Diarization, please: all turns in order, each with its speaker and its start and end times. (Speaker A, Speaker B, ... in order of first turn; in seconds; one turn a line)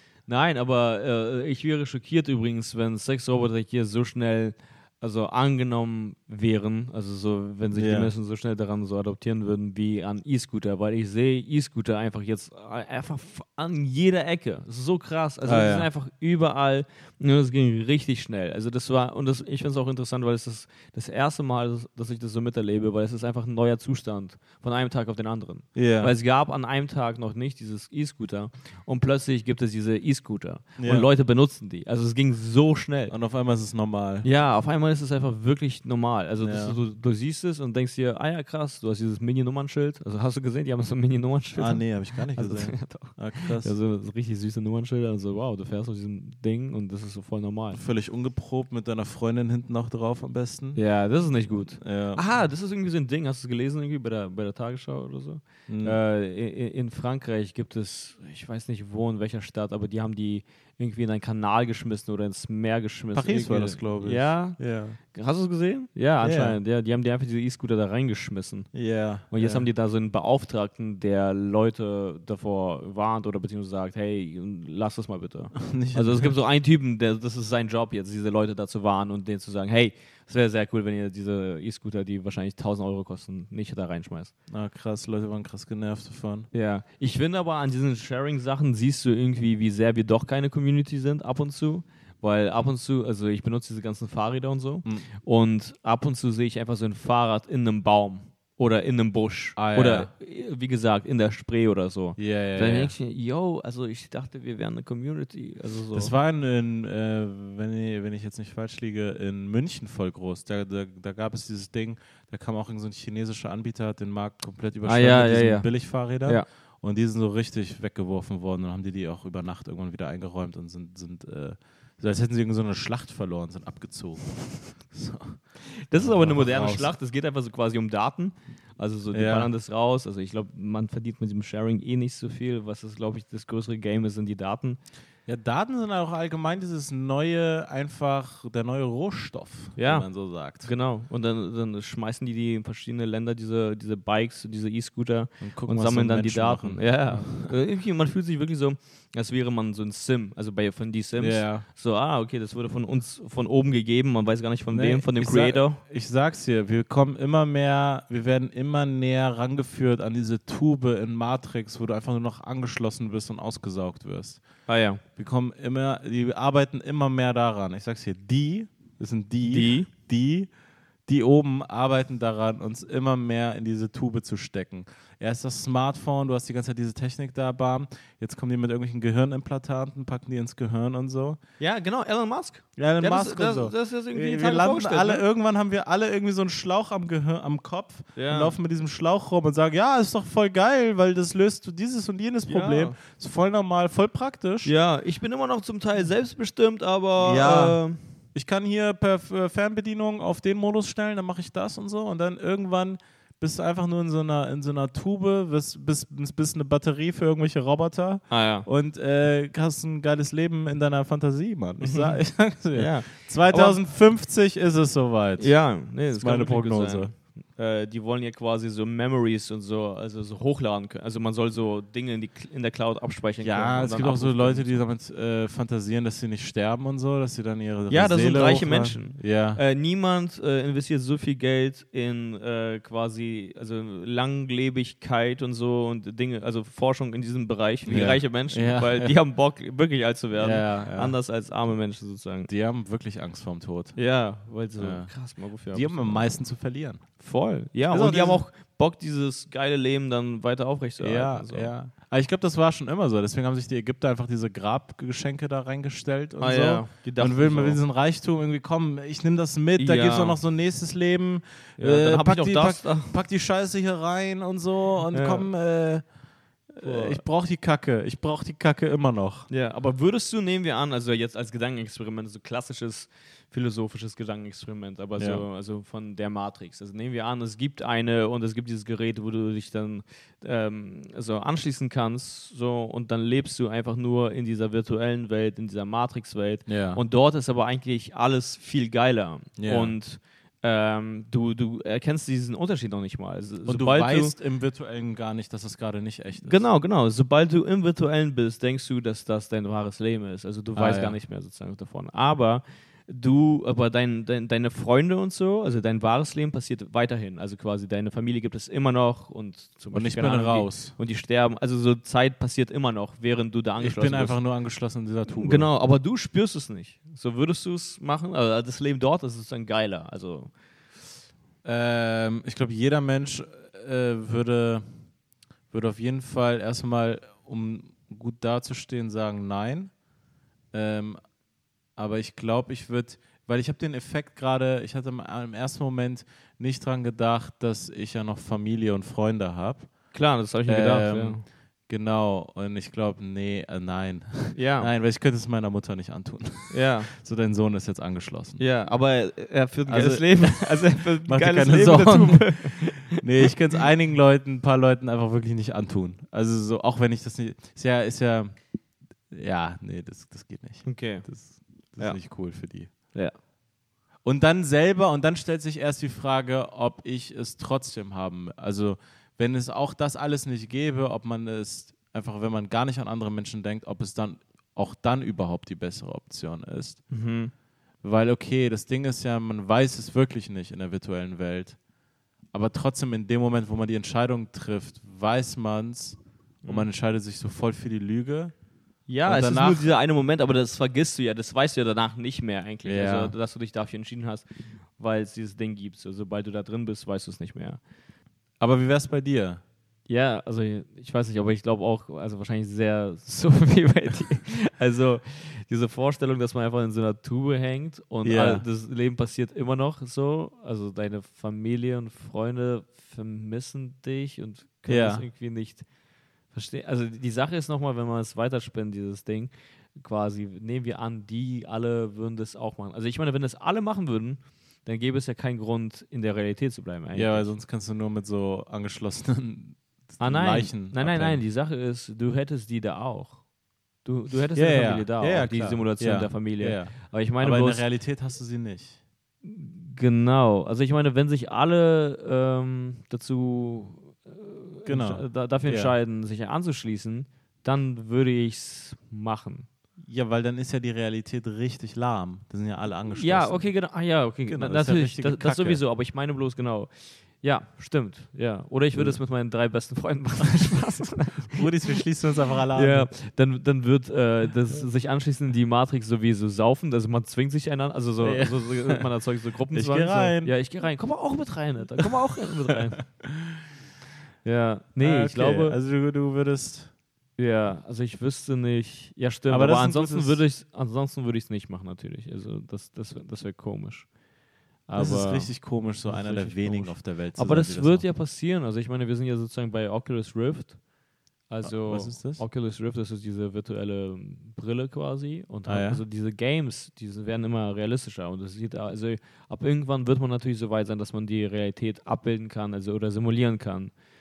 Speaker A: 0.3-33.1
Speaker B: 7.7-8.1
Speaker B: 15.4-15.9
Speaker B: 25.8-26.1
Speaker B: 30.8-31.1
Speaker B: 33.1-34.3
Speaker A: 34.2-47.8
Speaker B: 36.4-36.8
Speaker B: 41.6-43.7
Speaker B: 47.7-50.8
Speaker A: 50.8-68.7
Speaker B: 51.8-52.2
Speaker B: 55.7-56.0
Speaker B: 63.1-65.0
Speaker B: 66.2-66.6
Speaker B: 68.7-69.7
Speaker A: 69.3-84.3
Speaker B: 75.6-76.3
Speaker B: 84.5-86.5
Speaker A: 86.5-106.1
Speaker B: 99.6-100.1
Speaker B: 102.2-102.9
Speaker B: 105.9-125.4
Speaker A: 114.8-115.7
Speaker A: 125.9-134.8
Speaker B: 125.9-126.9
Speaker B: 129.1-129.5
Speaker B: 135.3-140.7
Speaker A: 139.8-155.8
Speaker B: 145.4-147.6
Speaker B: 151.2-151.7
Speaker B: 154.7-164.4
Speaker A: 164.7-165.0
Speaker B: 165.2-170.5
Speaker A: 169.4-169.9
Speaker B: 171.1-181.4
Speaker A: 181.6-185.2
Speaker B: 182.8-194.7
Speaker A: 188.2-188.6
Speaker A: 192.5-193.0
Speaker A: 194.7-198.0
Speaker B: 197.2-197.8
Speaker B: 198.3-217.1
Speaker A: 208.3-208.7
Speaker A: 211.8-212.2
Speaker A: 212.7-213.8
Speaker A: 215.4-224.8
Speaker B: 223.4-229.6
Speaker A: 227.9-242.5
Speaker B: 237.9-239.2
Speaker B: 240.4-241.2
Speaker B: 242.5-244.0
Speaker A: 244.0-246.3
Speaker B: 244.8-245.1
Speaker B: 245.7-247.0
Speaker A: 247.2-251.7
Speaker B: 247.9-248.4
Speaker B: 251.0-266.0
Speaker A: 256.4-257.8
Speaker A: 259.8-260.4
Speaker A: 261.8-263.2
Speaker A: 265.1-265.5
Speaker B: 266.7-269.5
Speaker A: 266.8-267.2
Speaker A: 269.5-294.4
Speaker B: 275.2-275.4
Speaker B: 286.7-287.0
Speaker B: 289.6-290.0
Speaker B: 293.7-296.6
Speaker A: 296.4-314.4
Speaker B: 300.8-301.2
Speaker B: 309.9-311.0
Speaker B: 313.8-315.7
Speaker A: 315.3-320.5
Speaker B: 321.6-324.8
Speaker B: 325.7-329.9
Speaker B: 330.7-331.2
Speaker B: 332.0-339.9
Speaker A: 340.1-341.4
Speaker B: 340.7-348.6
Speaker A: 344.6-344.9
Speaker A: 346.7-347.1
Speaker A: 348.6-353.8
Speaker B: 349.9-358.6
Speaker B: 359.3-362.9
Speaker A: 360.8-361.3
Speaker A: 362.0-362.2
Speaker B: 364.2-377.0
Speaker A: 377.1-377.5
Speaker B: 378.0-381.8
Speaker B: 382.5-388.5
Speaker A: 386.6-386.9
Speaker A: 389.1-397.8
Speaker B: 389.2-389.9
Speaker B: 392.8-393.3
Speaker B: 398.6-399.6
Speaker A: 400.1-415.9
Speaker B: 408.2-408.6
Speaker B: 414.9-415.3
Speaker A: 416.5-427.5
Speaker B: 427.1-431.4
Speaker A: 430.2-433.5
Speaker A: 434.0-437.9
Speaker B: 434.5-439.0
Speaker A: 439.4-449.7
Speaker B: 444.9-446.0
Speaker B: 450.0-453.8
Speaker A: 453.1-462.0
Speaker B: 454.4-455.8
Speaker B: 458.9-459.2
Speaker B: 461.5-463.1
Speaker A: 462.7-473.1
Speaker B: 468.2-469.1
Speaker B: 469.7-470.6
Speaker B: 473.2-473.5
Speaker A: 474.4-475.8
Speaker B: 475.0-476.9
Speaker A: 477.4-484.1
Speaker B: 479.5-480.4
Speaker A: 484.9-490.8
Speaker B: 484.9-488.1
Speaker A: 491.5-503.9
Speaker B: 491.6-492.4
Speaker B: 495.7-496.0